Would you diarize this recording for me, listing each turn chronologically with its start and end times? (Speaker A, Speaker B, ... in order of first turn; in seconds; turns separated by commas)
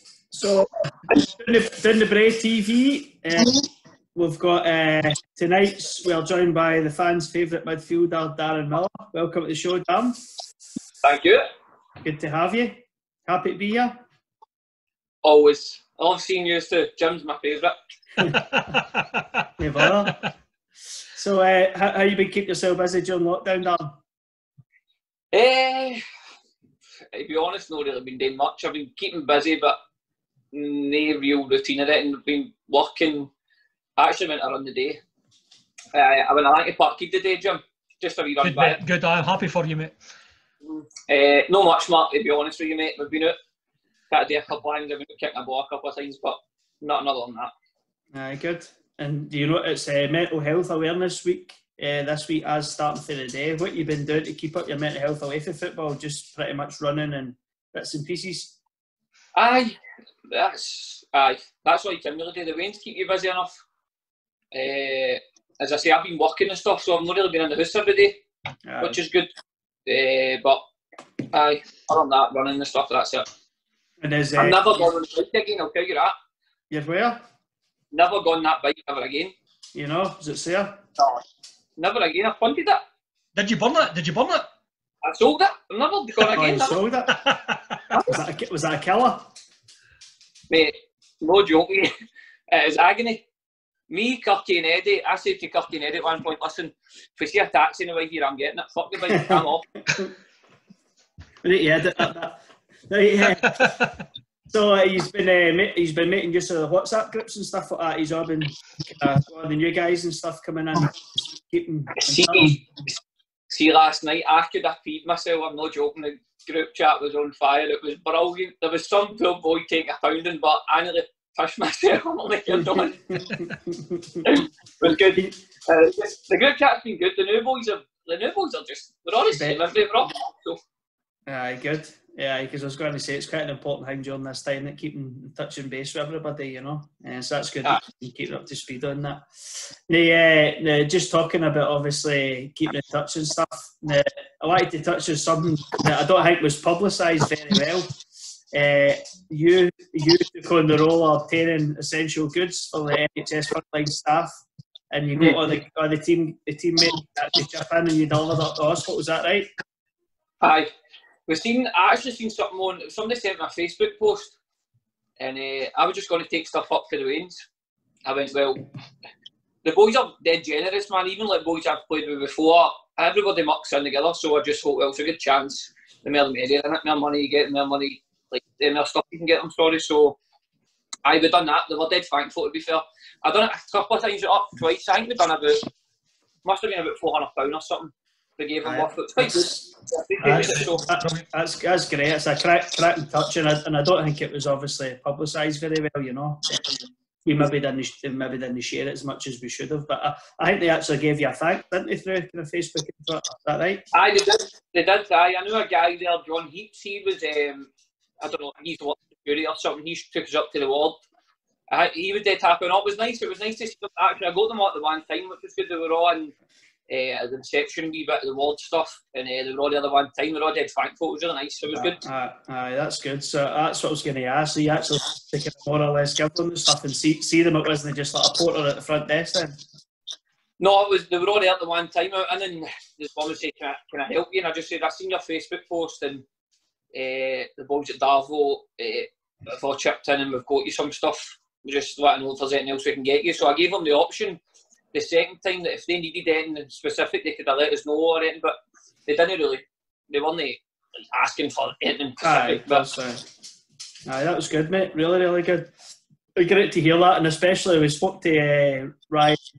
Speaker A: 0.3-3.6, Speaker A: 4.2-10.2, Speaker B: 11.0-11.5, Speaker A: 12.0-14.0, Speaker B: 15.2-17.8, Speaker C: 18.4-19.1, Speaker A: 19.6-20.2, Speaker A: 21.2-24.0, Speaker B: 25.3-26.0, Speaker B: 27.1-29.8, Speaker B: 30.5-33.3, Speaker B: 34.0-35.0, Speaker B: 35.9-38.8, Speaker C: 38.4-39.9, Speaker B: 40.7-43.4, Speaker B: 44.1-47.5, Speaker A: 48.1-58.6, Speaker B: 59.4-59.8, Speaker B: 60.3-63.6, Speaker B: 64.5-68.2, Speaker A: 68.7-69.0, Speaker B: 68.8-69.3, Speaker B: 69.9-70.6, Speaker B: 71.3-73.3, Speaker A: 74.0-74.6, Speaker B: 74.4-76.2, Speaker A: 76.7-77.2, Speaker B: 77.9-79.3, Speaker A: 79.7-80.8, Speaker B: 81.0-81.2, Speaker B: 81.8-82.8, Speaker C: 83.3-84.5, Speaker B: 85.0-86.8, Speaker A: 86.3-87.2, Speaker C: 87.1-87.6, Speaker A: 88.0-89.3, Speaker B: 90.5-91.9, Speaker B: 92.5-93.2, Speaker B: 93.9-99.7, Speaker A: 99.1-100.1, Speaker A: 101.4-103.8, Speaker C: 103.3-104.0, Speaker A: 104.5-112.6, Speaker B: 111.9-113.0, Speaker B: 113.5-123.0, Speaker A: 122.5-124.3, Speaker B: 124.2-130.6, Speaker A: 129.3-129.6, Speaker A: 131.3-148.0, Speaker A: 148.5-159.5, Speaker B: 155.2-155.5, Speaker B: 160.4-160.7, Speaker B: 161.3-164.3, Speaker B: 165.2-167.4, Speaker B: 168.1-168.7, Speaker B: 169.6-180.2, Speaker B: 181.1-185.6, Speaker B: 186.4-190.9, Speaker A: 188.6-189.7, Speaker A: 190.2-196.4, Speaker C: 190.4-191.2, Speaker A: 197.2-203.9, Speaker B: 203.9-207.7, Speaker B: 208.2-211.0, Speaker B: 211.7-216.3, Speaker B: 216.9-222.0, Speaker A: 221.7-229.6, Speaker B: 230.6-236.2, Speaker B: 236.9-244.4, Speaker B: 244.9-252.9, Speaker A: 252.2-253.2, Speaker A: 254.1-255.7, Speaker A: 256.4-259.4